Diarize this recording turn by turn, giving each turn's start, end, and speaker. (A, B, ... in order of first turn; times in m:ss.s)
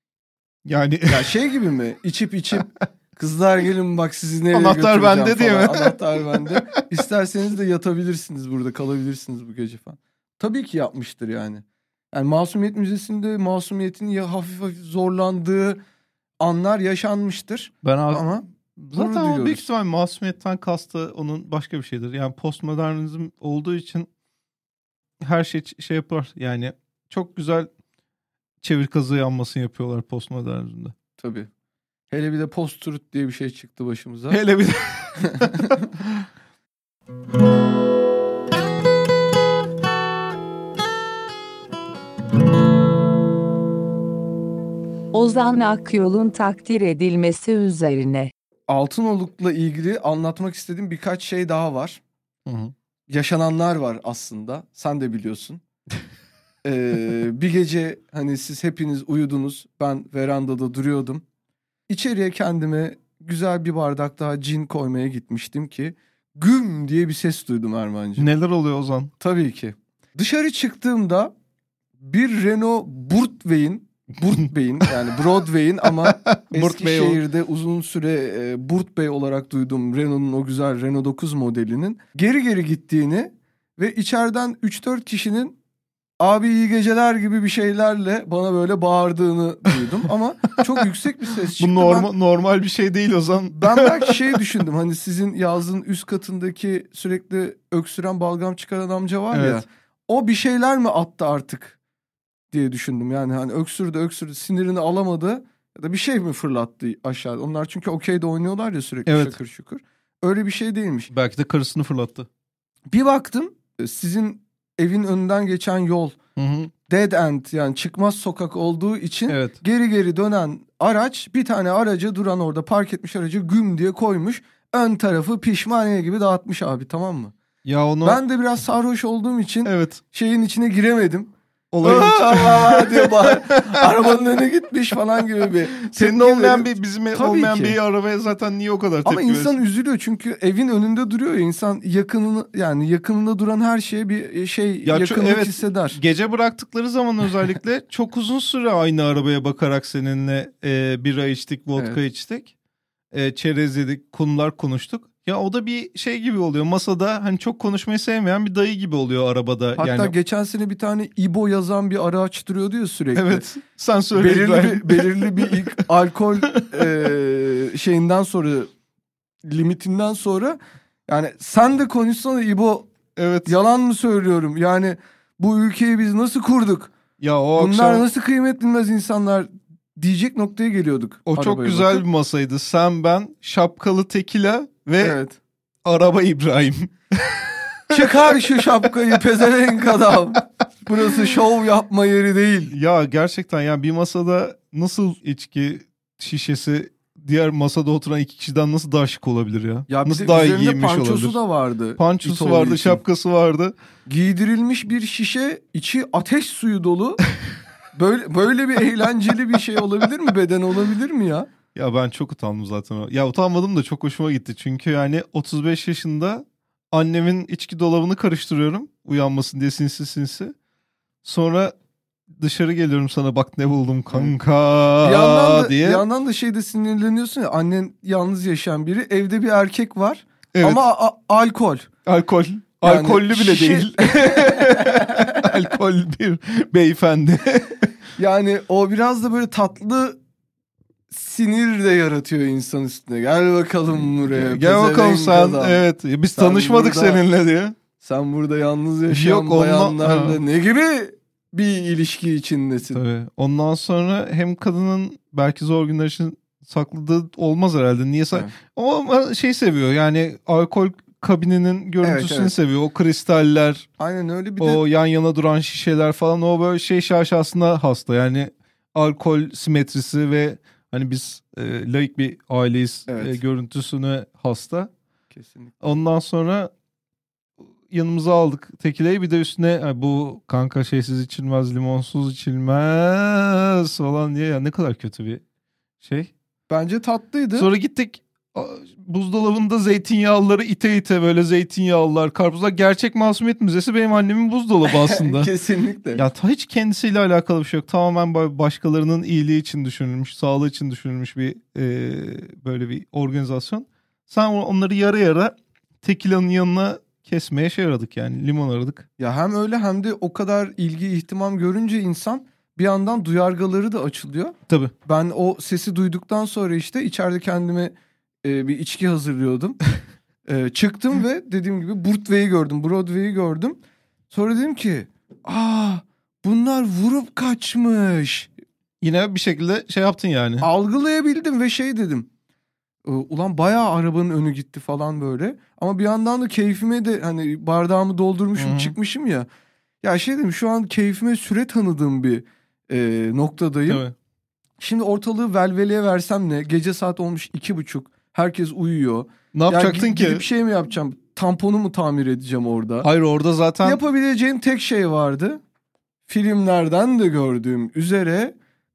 0:00.6-0:01.3 A
0:01.1-0:15.8 B
0:04.5-0:06.8 A
0:16.4-0:19.6 B
0:17.8-0:24.1 A
0:25.2-0:27.7 A
0:28.6-0:31.0 A
0:31.2-0:31.5 B
0:32.1-0:34.4 B
0:34.3-0:36.3 A
0:35.2-0:35.8 B
0:45.1-0:48.3 C
0:48.7-0:52.0 B
0:52.5-0:52.7 A
0:53.1-0:55.6 B
0:56.6-1:01.2 B
1:01.9-1:08.3 B
1:08.2-1:09.1 A
1:09.2-1:11.3 B
1:12.0-1:25.6 B
1:16.0-1:17.2 A
1:26.2-1:32.1 B
1:31.6-1:34.4 A
1:33.5-1:41.8 B
1:39.3-1:39.6 A
1:42.5-1:51.1 B
1:49.1-1:49.3 A
1:51.1-1:52.3 A
1:52.9-1:56.2 B
1:56.4-1:56.7 A
1:56.9-2:07.3 B
1:59.3-1:59.6 A
2:07.6-2:08.2 A
2:08.0-2:17.8 B
2:09.6-2:10.0 A
2:11.7-2:14.1 A
2:15.8-2:19.5 A
2:19.0-2:26.0 B
2:24.8-2:32.5 A
2:33.1-2:40.1 A
2:39.8-2:43.4 B
2:43.2-2:45.6 A
2:44.2-2:48.7 B
2:46.6-2:46.9 A
2:49.4-2:52.9 B
2:53.2-2:53.5 A
2:53.4-2:56.9 B
2:57.2-2:58.1 A
2:57.6-3:02.0 B
3:01.3-3:05.2 A
3:05.0-3:05.4 B
3:05.8-3:08.9 A
3:07.9-3:12.7 B
3:12.7-3:21.4 A
3:19.9-3:23.0 B
3:22.0-3:23.8 A
3:24.1-3:27.2 B
3:28.0-3:31.5 B
3:31.8-3:40.5 A
3:41.2-3:41.7 A
3:42.4-3:46.0 A
3:45.0-3:51.9 B
3:50.5-3:50.8 A
3:52.1-3:57.9 A
3:52.8-3:55.5 B
3:58.2-4:00.2 B
4:01.1-4:05.8 B
4:04.3-4:07.8 A
4:06.4-4:07.2 B
4:08.0-4:13.0 B
4:09.1-4:10.4 A
4:12.9-4:23.9 A
4:22.0-4:22.5 B
4:24.0-4:24.8 B
4:24.6-4:34.9 A
4:33.1-4:33.4 B
4:35.3-4:35.7 B
4:35.8-4:36.7 A
4:37.9-4:45.4 A
4:46.0-4:46.3 A
4:46.7-4:47.7 B
4:47.6-4:55.5 A
4:54.9-4:56.2 B
4:56.2-5:09.1 A
5:09.2-5:17.9 B
5:18.4-5:19.8 B
5:20.5-5:23.8 B
5:24.3-5:28.5 B
5:29.0-5:30.7 A
5:30.6-5:32.3 B
5:33.0-5:39.5 B
5:38.6-5:38.9 A
5:40.0-5:44.0 B
5:43.9-5:44.1 A
5:44.8-5:53.1 B
5:49.5-5:50.4 A
5:53.0-5:54.0 A
5:53.8-5:55.6 B
5:56.3-5:58.6 B